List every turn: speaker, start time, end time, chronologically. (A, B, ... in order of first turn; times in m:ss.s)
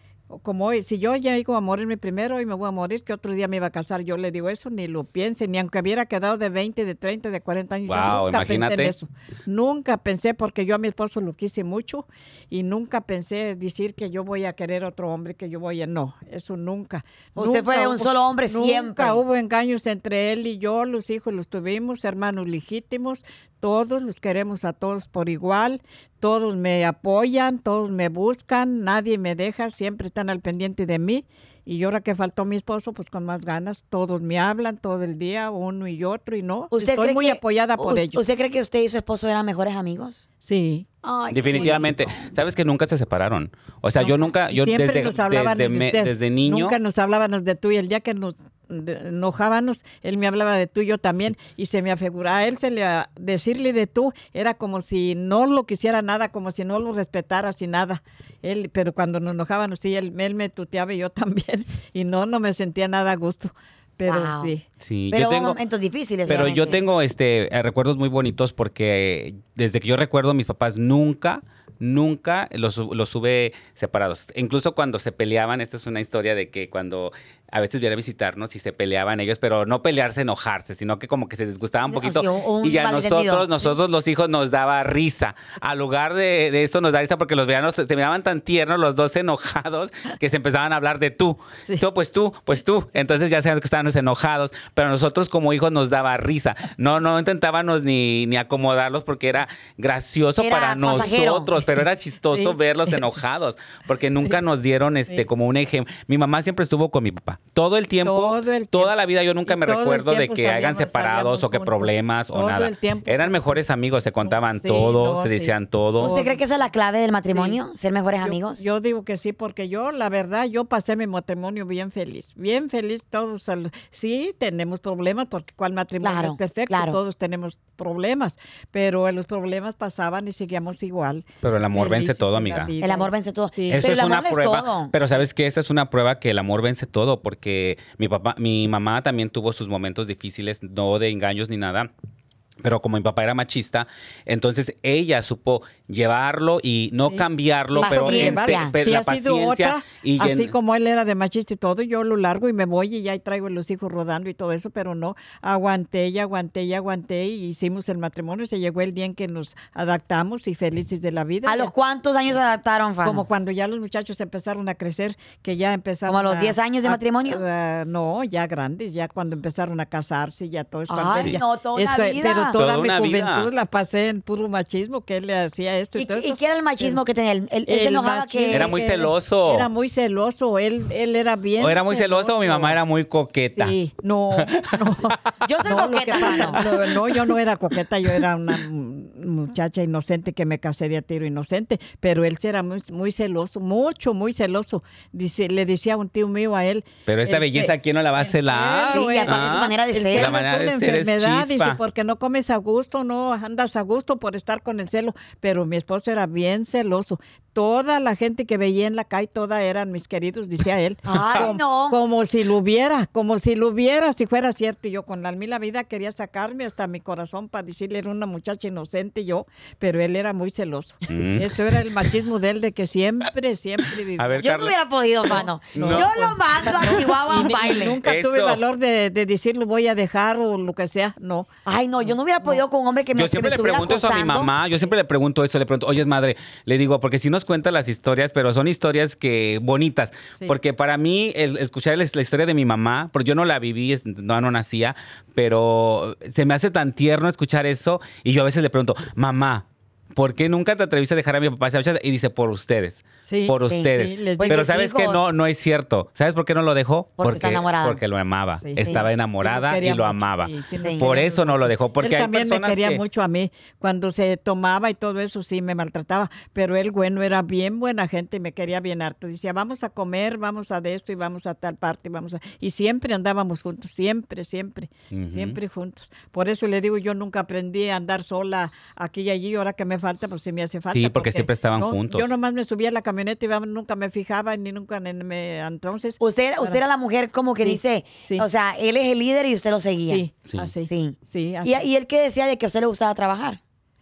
0:00.3-0:38.2 A
0:07.9-0:08.9 B
0:17.4-0:19.2 C
0:36.7-0:40.2 C
0:40.4-0:40.8 A
0:41.0-0:42.3 C
0:41.3-0:46.8 B
0:44.0-1:04.6 A
1:04.0-1:04.5 C
1:04.8-1:05.6 B
1:05.1-1:06.8 C
1:06.3-1:56.1 B
1:21.9-1:23.8 C
1:40.4-1:41.6 C
1:42.3-1:43.0 A
1:48.0-1:48.9 A
1:49.4-1:53.6 A
1:54.2-1:56.4 A
1:56.0-1:58.6 C
1:57.3-1:57.6 A
1:58.2-2:13.8 A
2:06.0-2:07.0 C
2:11.4-2:12.7 B
2:12.8-2:14.9 C
2:13.7-2:21.9 B
2:22.6-2:30.5 B
2:27.1-2:41.7 A
2:27.8-2:28.8 C
2:41.4-2:43.2 C
2:43.0-2:57.0 A
2:46.1-2:47.4 C
2:50.9-2:52.6 C
2:52.5-2:53.5 B
2:56.0-2:58.7 C
2:57.6-3:02.8 A
2:58.5-2:59.7 B
3:01.6-3:03.7 B
3:03.5-3:44.4 A
3:04.4-3:05.0 B
3:05.4-3:06.6 C
3:06.5-3:07.0 B
3:17.1-3:21.8 B
3:18.9-3:20.3 C
3:31.0-3:32.0 C
3:31.2-3:31.5 B
3:41.1-3:41.6 B
3:44.2-3:44.7 B
3:44.4-3:48.0 C
3:45.3-3:51.5 A
3:45.7-3:46.1 B
3:48.0-3:48.6 B
3:51.6-3:54.5 C
3:53.1-4:23.0 B
4:13.2-4:14.7 A
4:13.7-4:15.2 C
4:17.2-4:18.0 C
4:18.6-4:46.8 A
4:35.1-4:35.6 B
4:40.9-4:42.3 B
4:46.2-4:50.2 C
4:47.6-4:48.4 A
4:50.1-4:51.8 A
4:50.9-4:53.6 C